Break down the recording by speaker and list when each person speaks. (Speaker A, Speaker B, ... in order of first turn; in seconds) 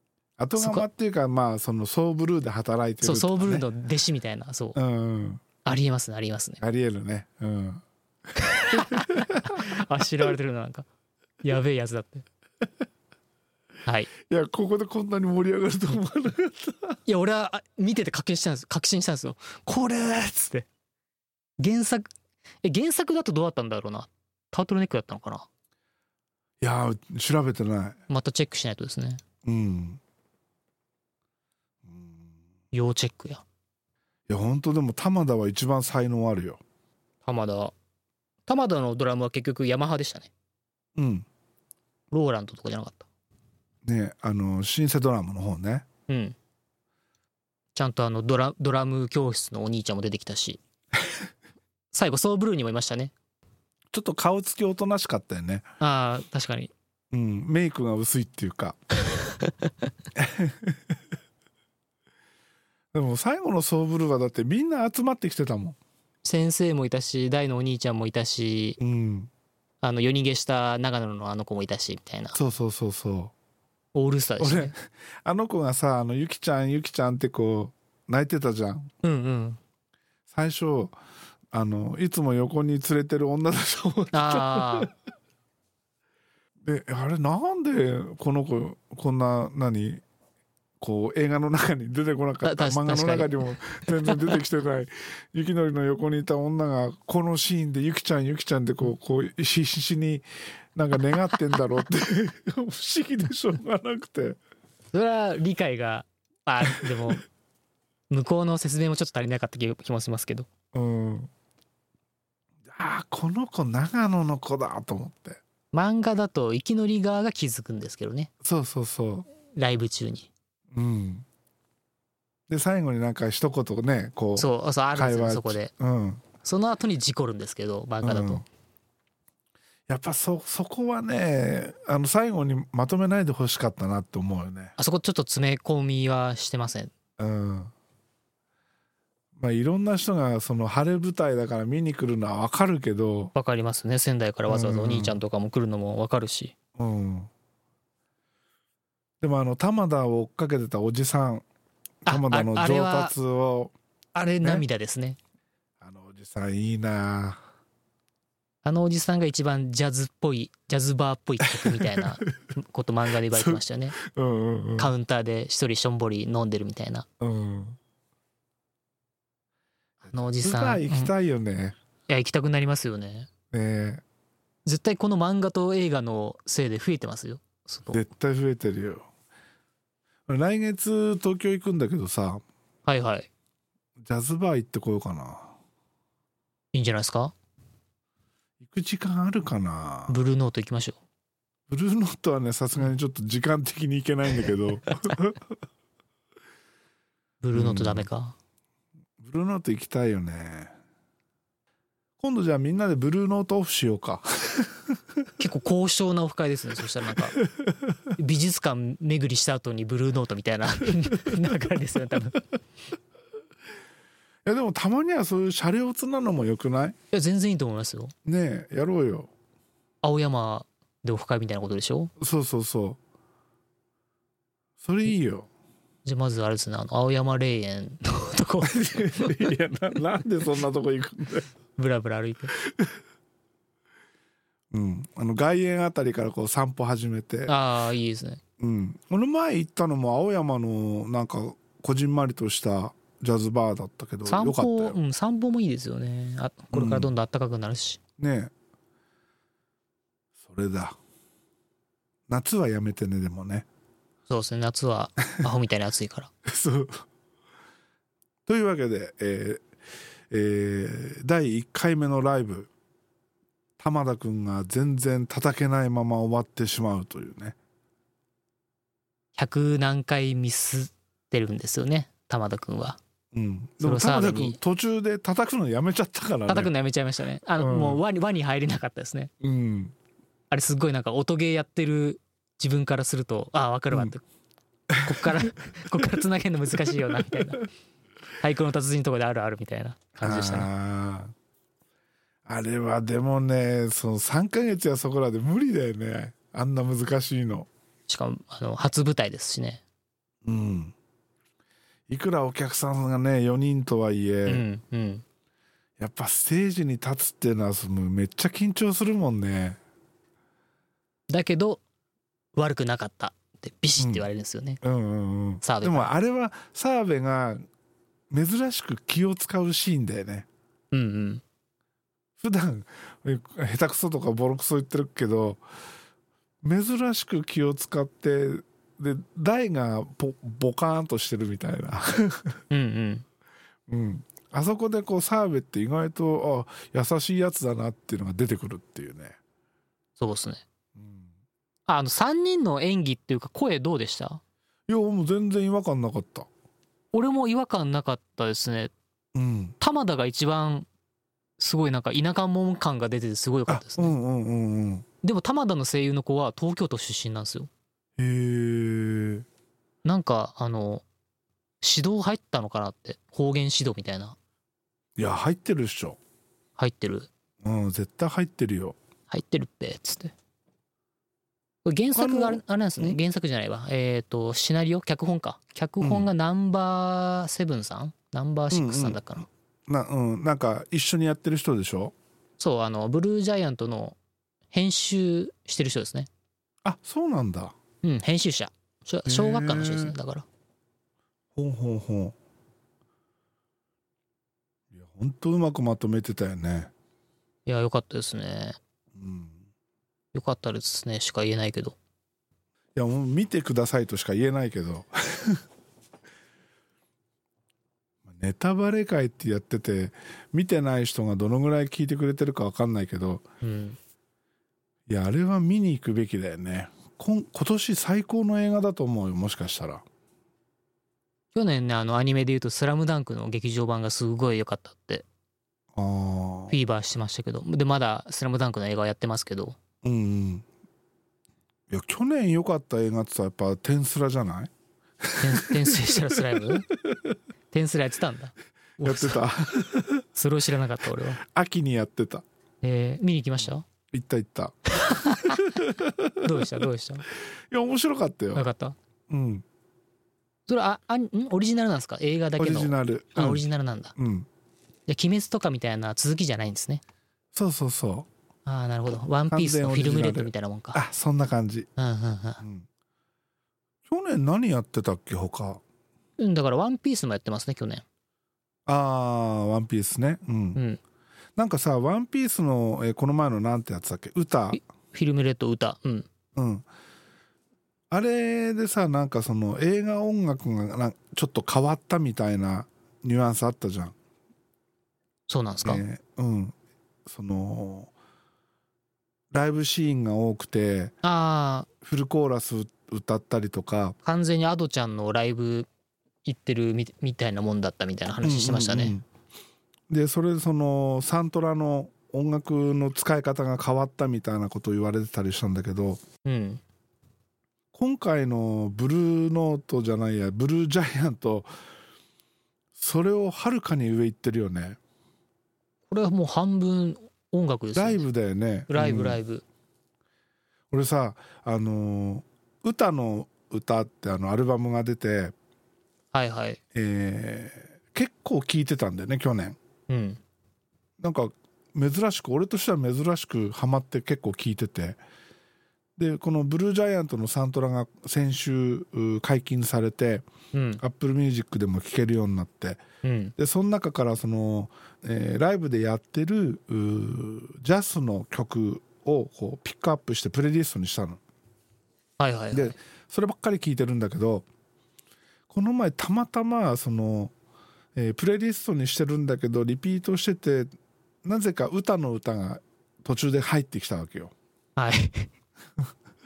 Speaker A: 0.4-3.6, 4.8-5.4, 6.6-7.8, 8.5-9.7, 14.2-17.0, 26.6-28.0, 29.4-30.0, 31.9-32.2, 34.3-36.6, 41.0-41.3, 43.9-45.9, 53.9-55.7, 57.1-58.8, 60.2-60.8, 62.9-65.8, 68.8-69.3, 72.3-73.3, 74.4-78.9, 80.3-81.0, 81.5-84.9, 86.6-90.0, 90.8-100.2, 100.8-104.4, 110.7-111.3, 112.7-115.4, 118.4-119.3, 120.7-121.3, 122.5-126.2, 128.0-128.5, 129.9-134.7, 137.2-137.7, 139.4-143.3, 144.5-145.2, 146.8-147.3, 149.2-151.5, 152.1-153.7, 155.8-157.4, 161.5-162.3, 163.3-164.9, 167.2-167.8, 170.3-171.8, 173.5-174.0, 177.9-179.1, 180.3-182.4, 184.0-185.5, 188.6-190.2, 191.7-195.4, 197.5-198.1, 199.2-200.7, 202.2-204.8, 207.4-207.7, 214.5-217.0, 218.2-219.3, 222.2-223.0, 224.8-225.5, 228.7-231.5, 232.6-232.9, 234.7-237.6, 238.6-245.0, 246.7-247.1, 248.2-248.5, 250.4-251.0, 252.3-253.7, 256.5-257.0, 258.5-259.6, 260.3-262.7, 263.8-267.6, 273.3-276.7, 277.6-278.0, 279.4-279.9, 284.9-285.7, 290.2-291.3, 292.5-297.7, 300.4-300.9, 302.1-304.6, 306.0-309.8, 314.0-314.3, 314.8-317.7, 318.3-320.5, 322.4-325.6, 326.6-332.6, 333.9-339.4, 341.0-341.3, 344.9-346.5, 349.4-349.8, 353.7-355.1, 358.2-359.5, 365.2-366.2, 367.6-369.0, 372.1-373.2, 376.0-376.3, 378.7-379.2, 379.9-382.1, 386.9-387.7, 389.3-390.1, 391.6-392.4, 394.9-396.9, 399.2-399.6, 402.9-405.6, 408.3-413.4, 415.1-420.0, 426.0-426.8, 430.0-430.6, 431.9-434.7, 435.2-436.0, 439.0-440.3, 441.4-442.4, 444.1-446.6, 447.7-448.7, 449.3-449.6, 452.6-453.6, 454.2-454.5, 457.5-458.3, 459.5-461.9, 462.6-462.9, 464.1-465.8, 468.9-470.8, 471.6-474.8, 476.6-476.9, 478.1-484.1, 485.8-486.7, 487.3-488.1, 489.5-491.1, 492.0-494.2, 498.4-499.2, 500.1-506.2, 507.9-511.7, 513.0-515.0, 517.9-519.4, 520.9-525.5, 526.9-529.8, 531.2-535.2, 536.2-540.5, 541.0-543.0, 543.6-551.4, 552.7-554.7, 555.7-557.5, 558.2-560.9, 561.4-564.5
Speaker B: 0.6-0.9, 3.0-4.8, 5.6-6.6, 8.4-10.9, 11.4-12.2, 17.1-20.7, 21.6-22.1, 22.6-25.5, 28.1-29.2, 32.7-33.4, 37.2-37.7, 38.5-40.3, 42.1-43.1, 46.1-46.4, 47.8-50.6, 51.9-53.1, 55.8-56.7, 66.2-68.8, 69.8-72.4, 73.9-74.7, 79.0-79.6, 84.1-84.9, 92.4-94.4, 104.9-107.2, 108.1-110.5, 115.7-118.3, 119.5-120.3, 124.4-125.7, 126.4-128.4, 134.8-136.9, 143.3-146.5, 152.1-153.1, 154.2-155.2, 158.6-164.0, 164.8-167.1, 170.1-171.1, 172.1-173.3, 174.7-178.0, 182.9-183.3, 186.7-187.3, 190.1-191.0, 197.4-198.4, 205.4-207.4, 208.2-212.4, 217.1-218.1, 220.0-222.1, 226.1-229.5, 231.8-232.5, 237.5-238.4, 244.3-248.0, 254.3-256.3, 269.4-273.0, 273.8-274.6, 276.5-279.3, 280.5-284.2, 285.0-287.6, 288.4-290.7, 298.1-299.8, 304.5-305.2, 311.3-311.8, 312.6-314.8, 315.6-316.1, 320.9-321.4, 332.7-333.2, 340.2-340.6, 341.9-344.4, 347.1-348.9, 349.8-350.9, 351.6-354.1, 355.2-357.7, 360.0-361.0, 361.8-364.4, 366.8-367.3, 369.3-370.3, 371.9-379.5, 382.6-384.2, 384.7-386.3, 388.0-390.4, 397.7-398.8, 400.3-402.0, 413.6-414.0, 421.5-425.2, 426.7-429.8, 435.4-436.9, 437.7-439.4, 440.4-441.4, 442.8-443.9, 445.0-445.8, 446.4-447.2, 448.6-449.0, 450.7-454.1, 455.1-457.0, 458.6-461.0, 462.0-462.6, 466.4-468.0, 470.8-471.0, 474.7-476.3, 485.5-486.0, 491.2-491.9, 494.2-495.9, 496.4-499.1, 506.4-506.8, 516.1-518.2, 518.9-519.6, 526.3-526.8, 530.1-530.4, 540.7-541.0, 543.2-543.5, 552.4-553.0, 565.0-565.5